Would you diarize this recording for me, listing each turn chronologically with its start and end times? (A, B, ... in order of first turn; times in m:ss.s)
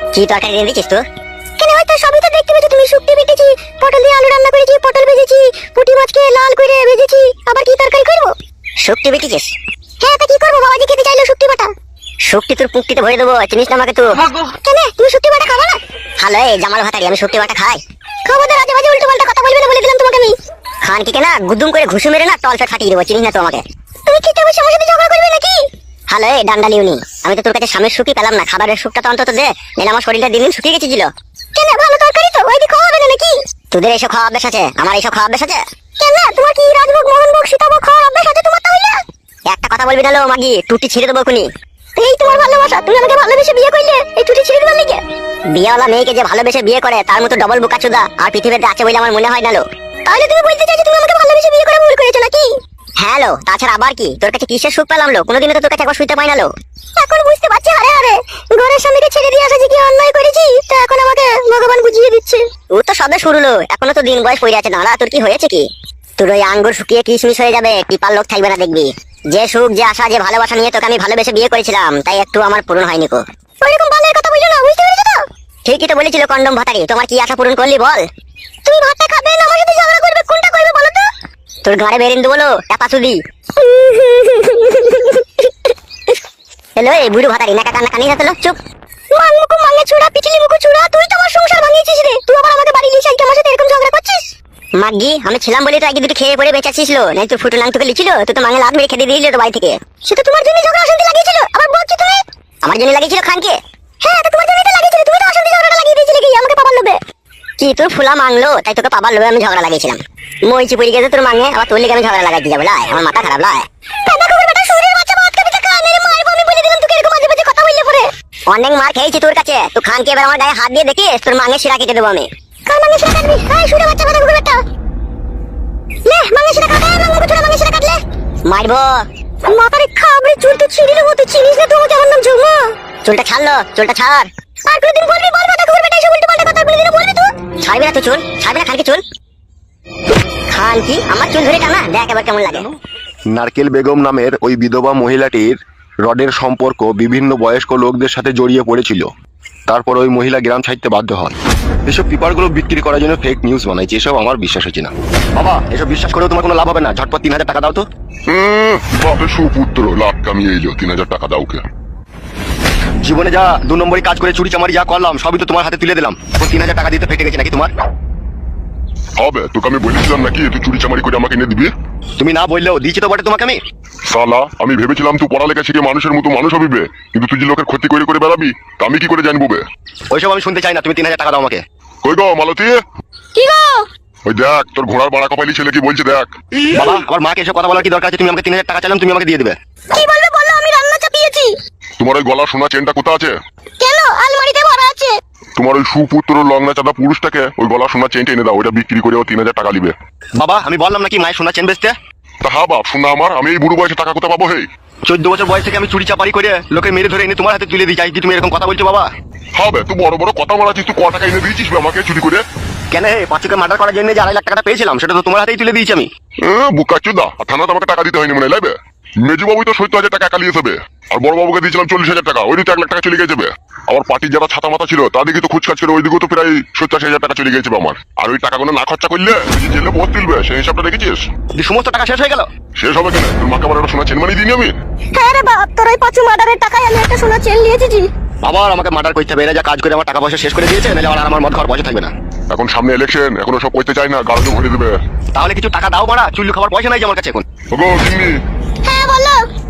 0:00.1-0:01.0 A
0:01.6-0:08.3 B
0:08.8-0:09.5 A
0:10.0-0:11.7 B
0:12.3-0:14.2 A
0:14.5-0:15.8 B
0:16.2-0:17.8 A
0:18.3-0:20.4 B
0:20.8-0:23.6 A
0:24.1-0:25.6 B
0:26.1-0:31.1 A
0:31.6-0:33.3 B
0:33.7-0:35.6 A
0:36.0-0:39.0 B
0:39.5-0:41.5 A
0:42.0-0:45.0 B
0:45.5-0:49.6 A
0:50.1-0:52.5 B
0:53.0-0:56.5 A
0:57.0-1:02.4 B
1:02.7-1:05.7 A
1:06.2-1:13.2 A
1:13.6-1:15.2 B
1:15.6-1:18.1 A
1:18.6-1:21.1 B
1:21.6-1:23.2 A
1:23.6-1:25.4 B
1:26.8-1:28.6 A
1:29.1-1:34.3 B
1:34.8-1:39.8 A
1:40.0-1:42.2 B
1:42.6-1:43.6 A
1:44.0-1:47.0 B
1:47.6-1:53.7 A
1:54.1-1:58.1 B
1:58.5-2:02.3 A
2:02.7-2:04.6 B
2:06.1-2:08.0 B
2:08.5-2:09.1 A
2:09.5-2:12.6 B
2:13.0-2:14.3 A
2:14.7-2:17.3 B
2:17.6-2:19.0 A
2:20.5-2:22.7 A
2:23.3-2:29.1 C
2:29.7-2:37.8 C
2:38.3-2:41.6 D
2:43.0-2:47.7 C
2:49.2-2:51.7 D
2:52.2-2:53.6 C
2:54.1-2:59.6 D
3:00.1-3:01.6 C
3:02.0-3:02.8 D
3:03.4-3:03.8 B
3:04.3-3:06.3 D
3:06.8-3:09.6 C
3:09.9-3:11.5 B
3:12.0-3:13.3 D
3:13.8-3:15.1 B
3:15.6-3:20.0 D
3:20.4-3:22.0 C
3:22.4-3:24.7 D
3:25.1-3:29.1 C
3:29.6-3:32.4 D
3:32.9-3:36.1 C
3:36.4-3:51.2 D
3:51.6-3:52.5 C
3:52.8-3:54.7 D
3:55.1-3:58.1 B
3:58.4-4:02.1 C
4:02.5-4:05.0 D
4:05.4-4:07.4 C
4:07.7-4:08.4 D
4:08.8-4:09.4 B